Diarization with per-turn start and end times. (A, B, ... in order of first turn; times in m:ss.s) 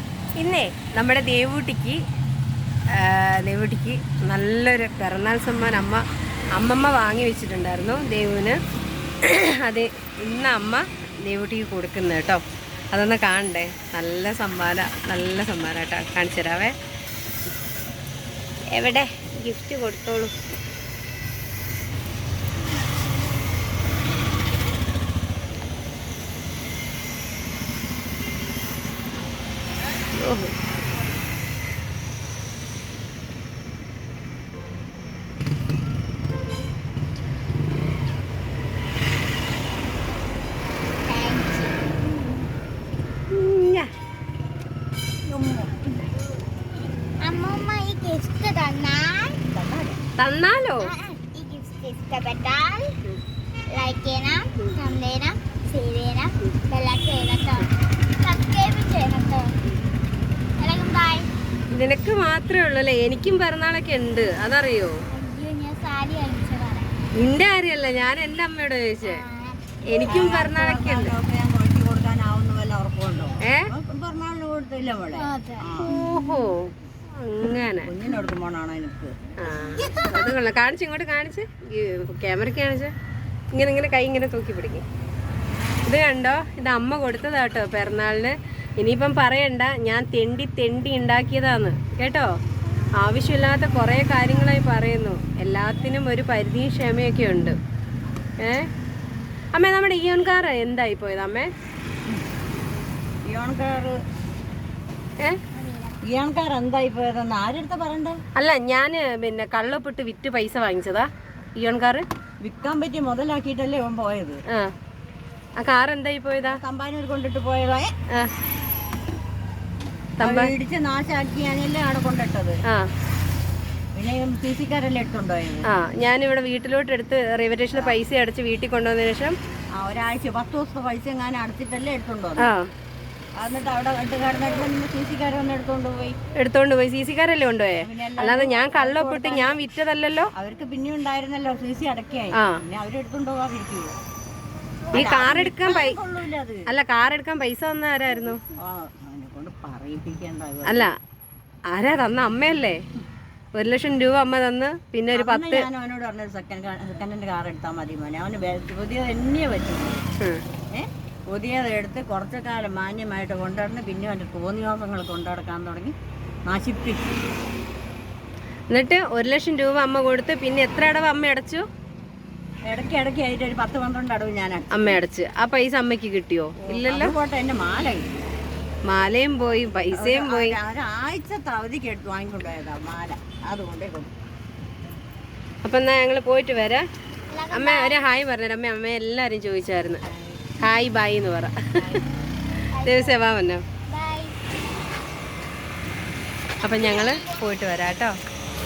0:00.4-0:02.0 A
0:03.0-0:06.0 A
0:06.6-0:08.6 A
0:09.2-0:12.4 A
0:12.9-0:16.7 A
0:18.7-0:20.3 A
0:30.1-0:30.6 A
0:41.0-0:41.9 B
0:43.3-0:43.9 A
0:45.3-0:45.8 C
0:47.2-0:49.4 B
0:49.5-0:50.0 C
0:50.2-0:50.9 A
0:50.8-0:52.9 B
0:53.7-0:59.5 B
1:00.6-1:01.3 B
1:01.7-1:04.9 A
1:05.1-1:07.0 B
1:07.2-1:09.2 A
1:09.0-1:10.3 B
1:09.9-1:11.2 A
1:10.0-1:15.9 C
1:13.4-1:13.7 A
1:15.2-1:15.9 B
1:15.8-1:16.7 A
1:17.2-1:17.9 A
1:17.8-1:19.1 C
1:19.4-1:22.9 A
1:19.6-1:20.3 B
1:23.5-1:24.8 A
1:25.9-1:32.3 A
1:33.0-1:37.6 A
1:38.4-1:38.7 A
1:39.5-1:41.5 A
1:43.2-1:44.0 C
1:45.5-1:46.0 B
1:46.0-1:48.2 C
1:48.4-1:52.0 A
1:52.4-1:54.4 C
1:55.6-1:56.6 A
1:56.5-1:57.9 C
2:00.2-2:00.5 A
2:00.2-2:02.6 C
2:04.0-2:05.7 C
2:05.7-2:09.4 A
2:09.8-2:12.5 C
2:12.4-2:12.7 A
2:13.4-2:16.2 C
2:16.4-2:20.3 A
2:17.8-2:19.6 C
2:20.4-2:23.9 C
2:22.3-2:22.6 A
2:24.9-2:26.7 C
2:24.9-2:26.0 A
2:26.7-2:28.4 A
2:28.6-2:30.9 C
2:30.6-2:30.9 A
2:31.7-2:32.8 A
2:33.6-2:35.7 A
2:35.1-2:40.0 C
2:40.7-2:45.9 C
2:46.5-2:47.1 C
2:48.7-2:51.6 A
2:52.7-2:55.0 C
2:54.7-2:57.2 A
2:56.6-2:58.3 C
2:58.9-3:00.6 A
2:59.9-3:04.1 C
3:05.6-3:06.8 A
3:07.3-3:08.0 B
3:07.5-3:10.0 A
3:10.6-3:12.0 A
3:12.7-3:13.2 B
3:12.8-3:13.6 A
3:13.9-3:14.4 B
3:16.6-3:18.1 A
3:16.6-3:17.4 B